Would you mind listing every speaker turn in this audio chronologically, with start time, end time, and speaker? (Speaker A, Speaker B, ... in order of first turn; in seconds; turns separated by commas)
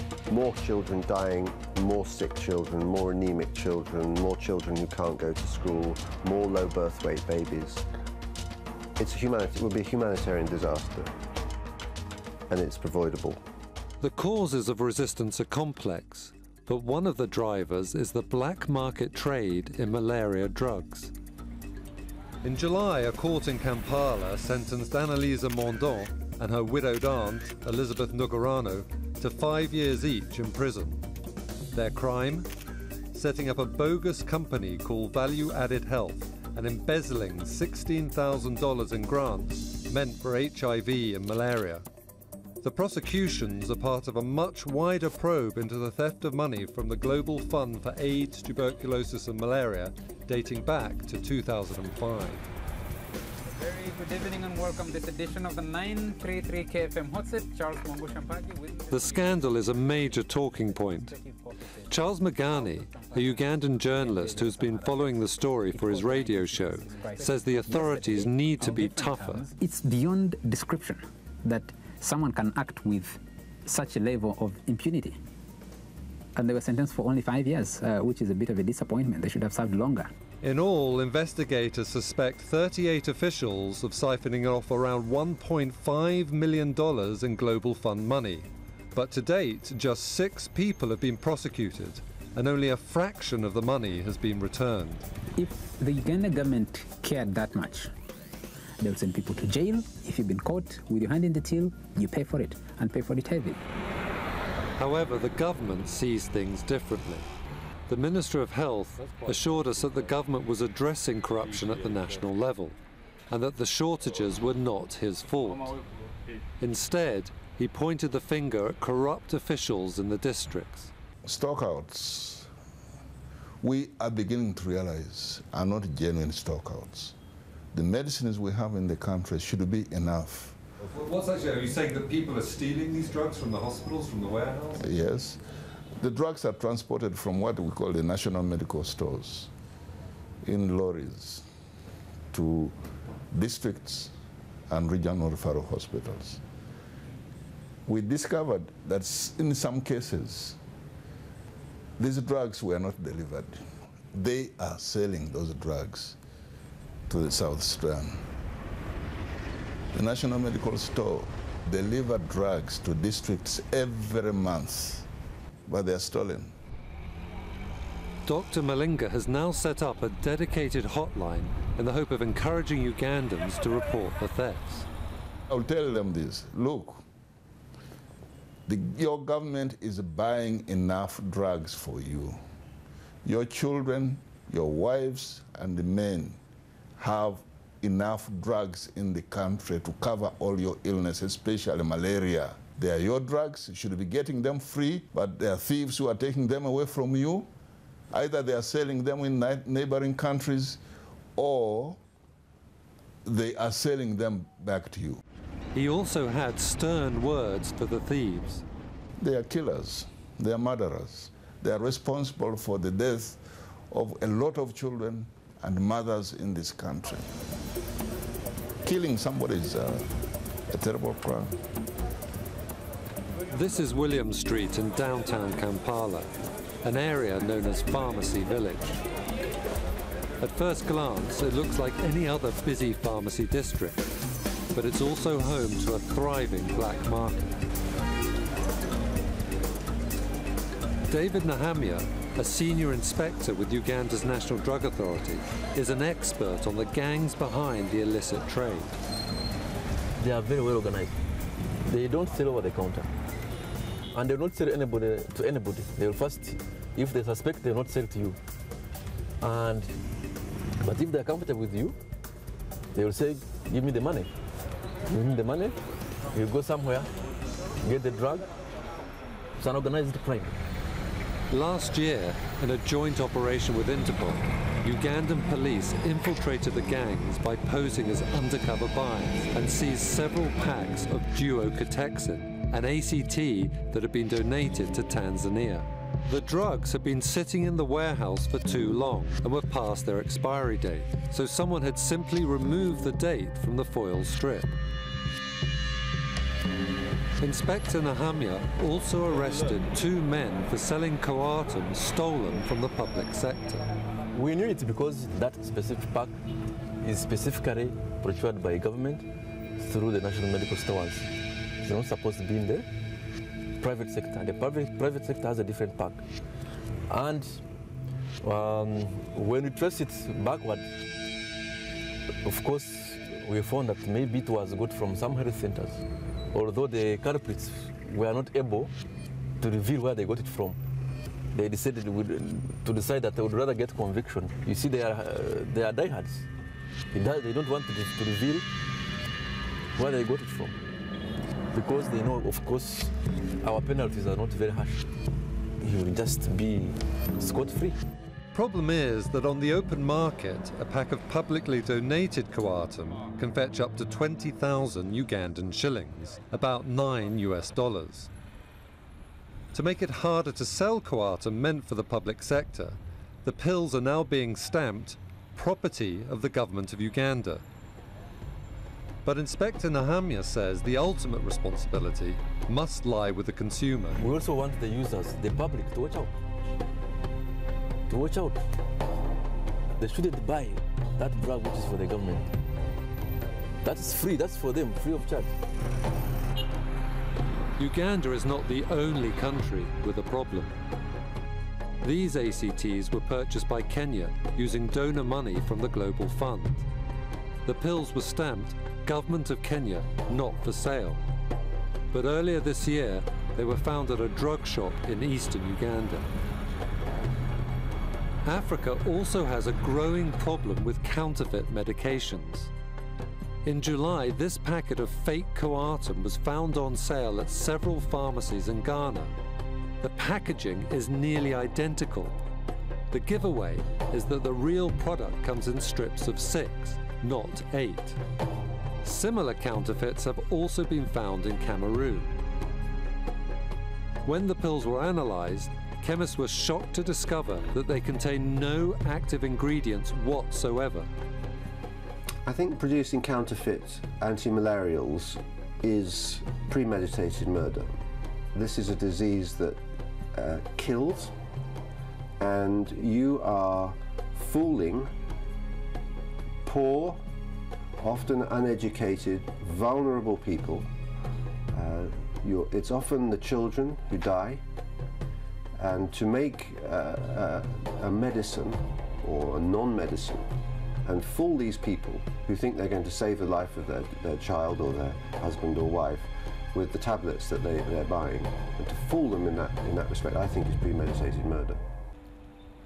Speaker A: 0.3-7.8, Speaker A: 9.0-11.1, Speaker A: 12.5-13.4, Speaker B: 14.0-21.1, Speaker B: 22.4-31.0, Speaker B: 31.7-32.5, Speaker B: 33.1-41.9, Speaker B: 42.6-52.5, Speaker C: 53.5-60.2, Speaker B: 58.9-61.1, Speaker C: 61.0-61.8, Speaker B: 61.9-69.5, Speaker C: 62.8-63.2, Speaker D: 64.3-64.8, Speaker D: 65.7-75.2, Speaker D: 76.4-80.1, Speaker B: 80.4-95.1, Speaker D: 95.4-97.9, Speaker D: 98.8-103.6, Speaker B: 104.8-107.3, Speaker B: 107.9-112.8, Speaker B: 113.3-115.8, Speaker B: 116.6-120.9, Speaker E: 121.2-122.5, Speaker E: 123.6-127.2, Speaker E: 127.7-130.6, Speaker B: 130.8-134.8, Speaker E: 134.8-135.4, Speaker E: 136.0-139.5, Speaker E: 140.4-141.5, Speaker E: 142.3-142.8, Speaker E: 143.3-144.1, Speaker E: 144.7-146.4, Speaker E: 147.9-150.6, Speaker E: 152.0-156.2, Speaker E: 157.1-158.3, Speaker E: 159.9-165.1, Speaker E: 165.7-166.6, Speaker B: 168.3-174.9, Speaker E: 175.5-177.0, Speaker E: 178.7-182.4, Speaker E: 183.2-186.4, Speaker E: 187.0-197.5, Speaker E: 198.1-200.8, Speaker E: 201.4-202.0, Speaker E: 203.2-205.2, Speaker B: 205.7-208.7, Speaker E: 209.2-217.3, Speaker E: 218.8-220.1, Speaker E: 220.7-221.6, Speaker B: 223.5-226.3, Speaker B: 226.8-229.0, Speaker B: 230.4-234.1, Speaker B: 234.7-237.5, Speaker B: 241.1-249.0, Speaker F: 250.2-253.1, Speaker F: 254.1-258.4, Speaker F: 259.4-260.0, Speaker F: 260.8-262.0, Speaker F: 262.9-264.3, Speaker F: 265.1-265.8, Speaker F: 266.3-267.1, Speaker F: 267.8-268.5, Speaker F: 269.6-270.6, Speaker B: 271.5-294.8, Speaker B: 297.4-303.9, Speaker F: 304.3-306.4, Speaker F: 307.0-309.3, Speaker F: 309.8-312.9, Speaker F: 313.8-316.3, Speaker F: 317.1-317.6, Speaker F: 318.4-320.9, Speaker F: 322.4-328.9, Speaker F: 329.6-330.8, Speaker F: 331.5-336.5, Speaker F: 337.1-338.7, Speaker F: 339.9-340.8, Speaker F: 341.7-345.1, Speaker F: 345.8-348.0, Speaker B: 348.5-358.3, Speaker B: 359.7-367.6, Speaker B: 369.2-374.2, Speaker F: 374.2-376.3, Speaker F: 378.1-378.6, Speaker F: 380.0-382.5, Speaker F: 383.8-385.6, Speaker B: 387.8-390.8, Speaker B: 392.0-396.9, Speaker B: 397.6-401.2, Speaker B: 402.1-406.3, Speaker B: 408.4-412.7, Speaker B: 413.6-419.3, Speaker B: 420.0-422.4, Speaker B: 423.1-428.2, Speaker B: 429.0-432.4, Speaker B: 434.2-441.1, Speaker A: 442.5-448.0, Speaker A: 448.5-449.8, Speaker A: 450.3-451.3, Speaker A: 452.4-455.1, Speaker A: 456.6-457.2, Speaker A: 458.0-460.9, Speaker A: 461.7-464.6, Speaker A: 465.8-470.5, Speaker A: 471.1-481.8